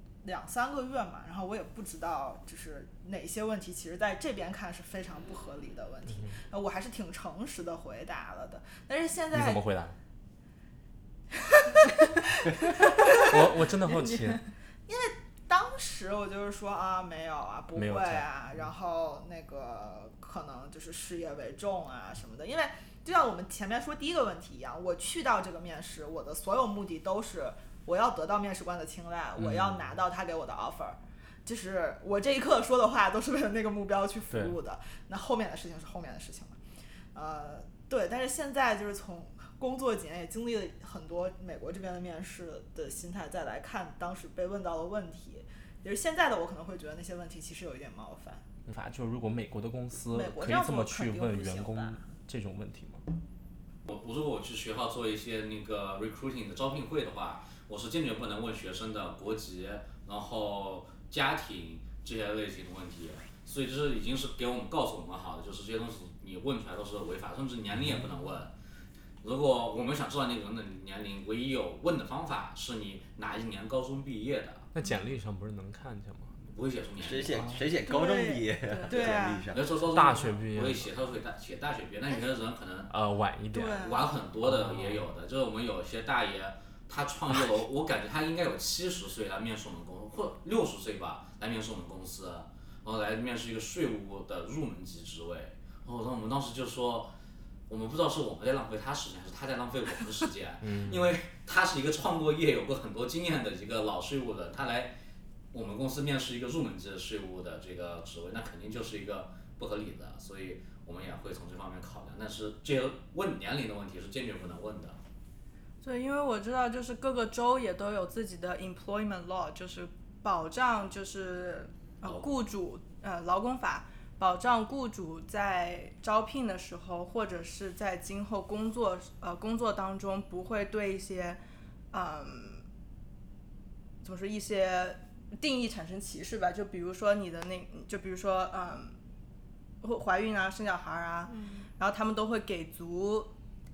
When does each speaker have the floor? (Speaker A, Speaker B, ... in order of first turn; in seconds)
Speaker A: 0.2-9.6, 11.6-36.6, 37.1-48.5, 50.1-52.0, 77.8-79.5, 83.5-84.2, 141.3-141.7
Speaker B: 6.1-6.4, 9.3-10.0, 13.2-14.4, 17.8-18.3, 29.4-29.9, 34.3-34.6, 48.7-53.0, 74.8-76.4, 77.3-77.6, 79.9-80.9, 82.9-83.8, 84.4-85.1, 100.6-101.2
Speaker C: 53.9-68.5, 69.2-74.7, 76.5-77.4, 79.5-82.9, 83.7-97.1, 97.7-104.9, 105.5-115.0, 122.0-122.3
Speaker D: 77.0-79.6
Speaker E: 115.8-131.4, 131.9-132.6, 134.0-138.9, 139.8-143.3